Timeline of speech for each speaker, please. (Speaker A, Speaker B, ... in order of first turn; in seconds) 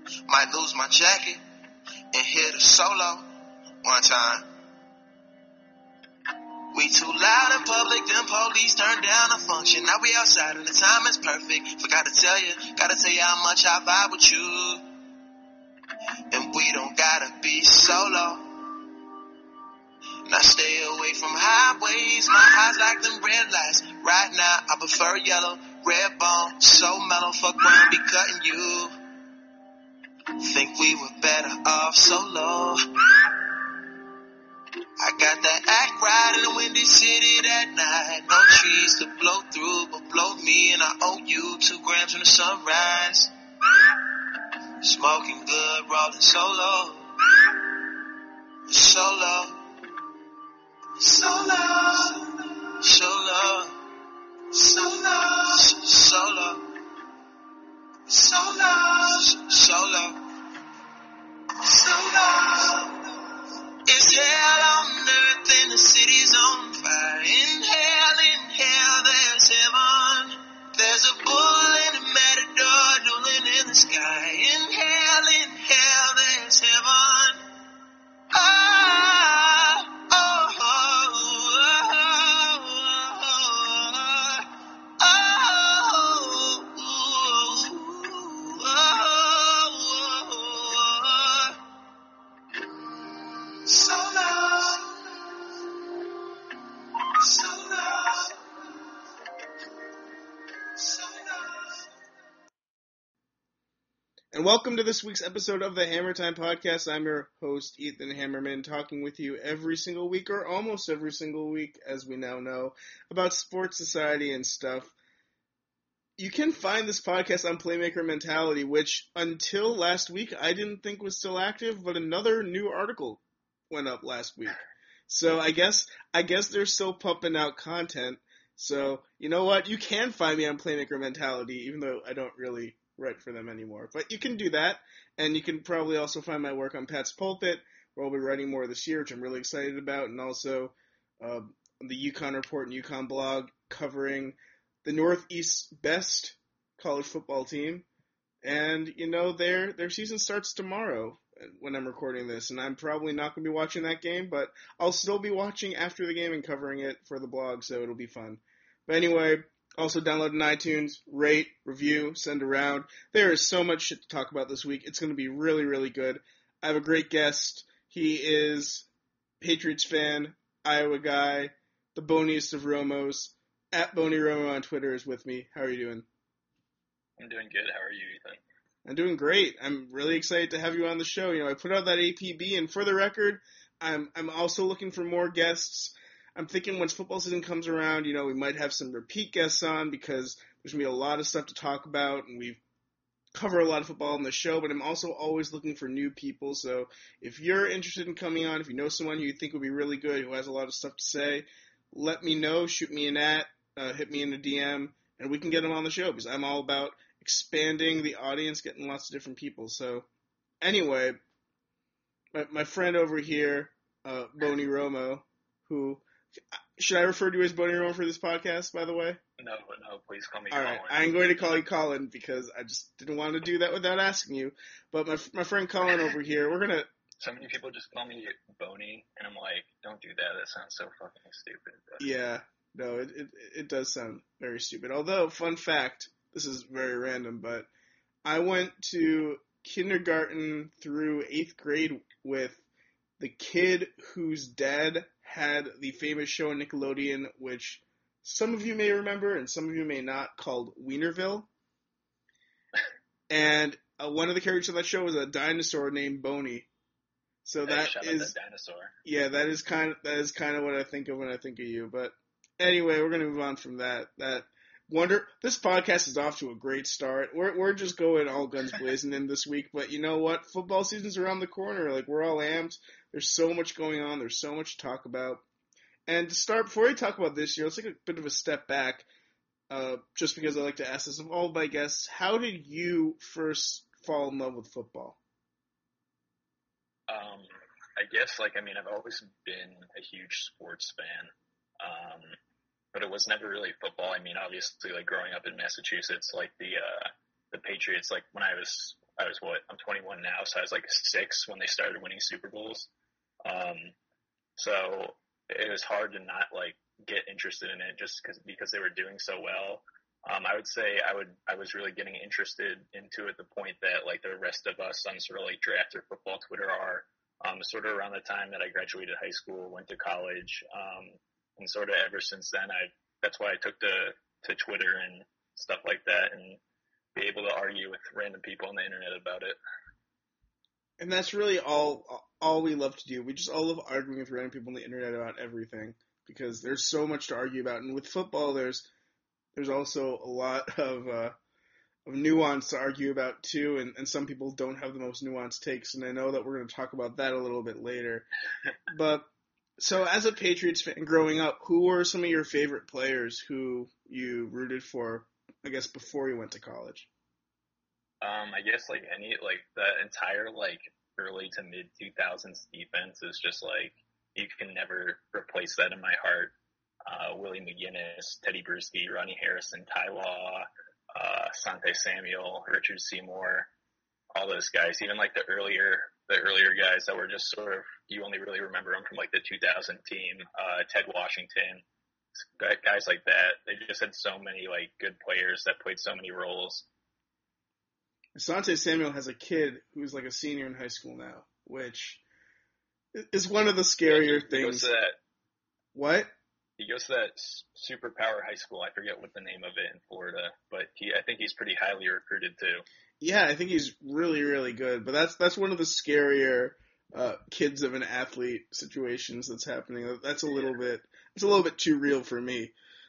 Speaker A: 0.3-1.4, 2.1-3.3, 3.8-4.5, 6.7-14.9, 16.3-18.6, 20.2-28.9, 30.4-33.3, 35.0-47.6, 48.7-49.6, 51.0-53.7, 54.5-56.7, 58.1-60.2, 61.6-63.1, 63.8-77.4, 78.3-91.6, 93.4-95.4, 97.0-98.4, 100.7-101.8
Speaker B: 104.3-114.9, 116.2-147.8, 148.4-168.9, 169.4-176.1, 178.8-192.6, 193.3-210.1, 210.6-211.2, 212.3-216.1, 216.8-219.2, 220.5-226.9, 232.0-237.7, 238.2-242.6, 243.2-251.5, 253.3-256.7, 257.4-258.3, 259.0-275.4, 276.1-279.1, 279.7-285.2, 331.0-338.9, 339.5-341.3, 342.1-348.3, 348.9-357.1, 388.4-392.2, 393.1-394.9, 395.9-396.3, 403.2-412.7
Speaker C: 177.2-178.4, 219.4-221.6, 227.2-232.1, 257.6-258.9, 287.1-292.4, 292.9-302.9, 303.4-303.9, 304.6-326.6, 327.1-329.6, 358.2-366.5, 367.1-373.7, 374.3-381.8, 382.6-386.9, 394.1-395.2, 396.8-402.8